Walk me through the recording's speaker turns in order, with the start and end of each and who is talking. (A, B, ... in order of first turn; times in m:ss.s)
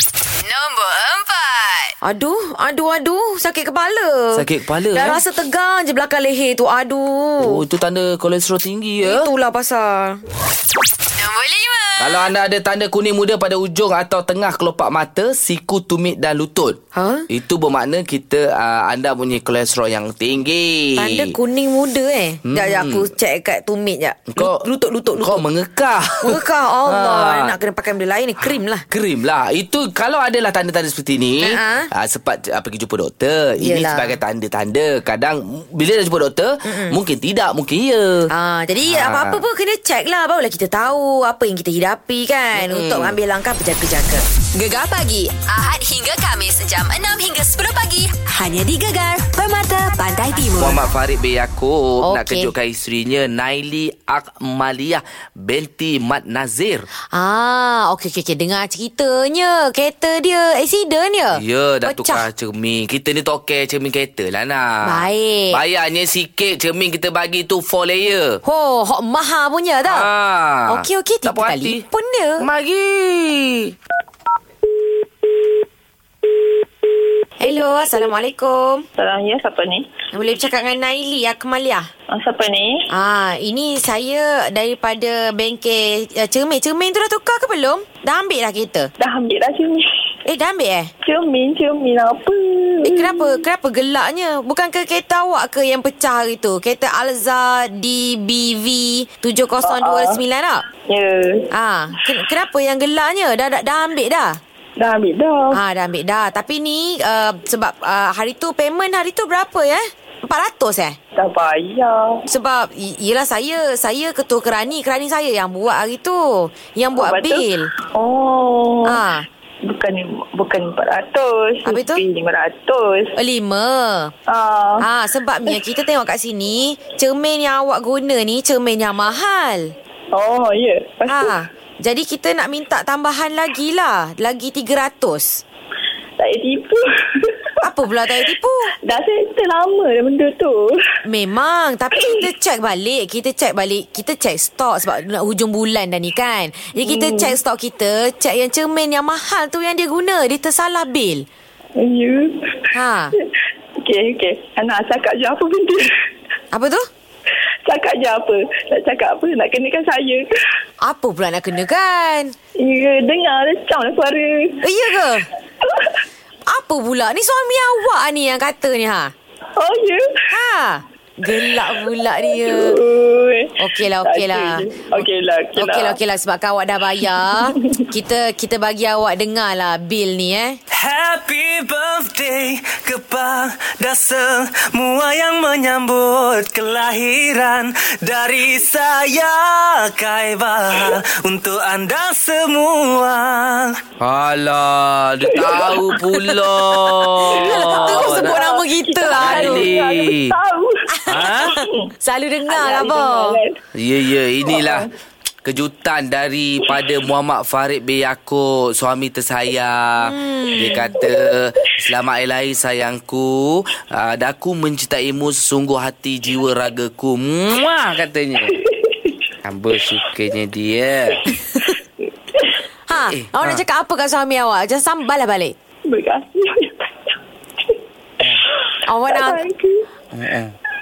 0:00.4-0:01.9 A
0:02.0-0:07.6 B
0:04.3-0:05.2 C
0:07.4-0:09.3 C
0:09.0-0:10.2 B
0:11.2-0:12.3 A
0:12.0-0:21.4 C
0:16.9-0:17.3 B
0:21.0-0:25.4 B
0:22.4-0:23.1 C
0:24.3-0:27.5 C
0:26.2-0:28.8 B
0:28.5-0:38.3 C
0:31.4-0:31.9 B
0:33.6-0:34.2 B
0:36.6-0:37.0 B
0:38.3-0:44.2 B
0:38.8-0:39.4 C
0:42.5-0:43.2 C
0:44.5-0:50.8 A
0:50.6-0:56.9 C
0:52.0-0:52.5 B
0:57.1-1:02.2 B
1:01.3-1:08.4 C
1:04.8-1:05.6 B
1:08.4-1:10.1 B
1:09.8-1:11.8 C
1:10.7-1:12.5 B
1:12.4-1:13.7 C
1:17.4-1:18.8 B
1:19.0-1:19.9 D
1:20.1-1:21.9 B
1:22.1-1:22.9 D
1:22.9-1:28.9 B
1:29.0-1:29.8 D
1:30.2-1:30.9 B
1:31.0-1:33.4 D
1:32.8-1:40.6 B
1:39.6-1:40.2 D
1:40.9-1:41.5 D
1:41.5-1:44.4 B
1:44.8-1:45.6 D
1:45.5-1:51.0 B
1:51.2-1:52.2 D
1:52.3-1:57.7 B
1:56.9-1:59.0 D
1:58.8-1:59.2 B
1:59.7-2:03.1 D
2:01.6-2:02.0 B
2:03.2-2:04.1 B
2:04.3-2:04.8 D
2:04.8-2:09.7 B
2:10.1-2:11.4 D
2:11.1-2:15.4 B
2:16.2-2:17.5 D
2:17.6-2:18.7 B
2:18.8-2:20.8 D
2:21.0-2:31.2 B
2:26.8-2:27.4 D
2:31.8-2:32.6 D
2:32.7-2:33.1 B
2:33.8-2:35.9 D
2:36.5-2:36.9 B
2:37.6-2:40.3 D
2:40.8-2:42.3 B
2:42.6-2:44.6 D
2:44.6-2:45.3 B
2:45.6-2:45.9 D
2:46.5-2:49.1 B
2:49.6-2:50.2 D
2:50.3-2:52.8 B
2:51.3-2:56.0 D
2:53.6-2:55.0 B
2:55.6-3:00.6 B
2:57.0-2:57.8 D
3:00.7-3:13.8 E
3:14.0-3:18.3 C
3:15.3-3:16.1 D
3:17.2-3:21.9 D
3:17.3-3:19.7 B
3:19.2-3:20.3 C
3:21.0-3:23.4 B
3:21.1-3:21.6 E
3:22.5-3:23.6 D
3:23.7-3:24.9 C
3:24.4-3:24.9 D
3:25.4-3:38.6 C
3:30.0-3:30.9 B
3:30.7-3:31.3 D
3:38.5-3:39.1 D
3:39.4-3:41.3 C
3:39.8-3:40.1 D
3:42.9-3:45.5 B
3:42.9-3:43.6 C
3:45.9-3:48.4 D
3:48.8-3:49.4 B
3:49.1-3:49.8 D
3:50.1-3:50.5 C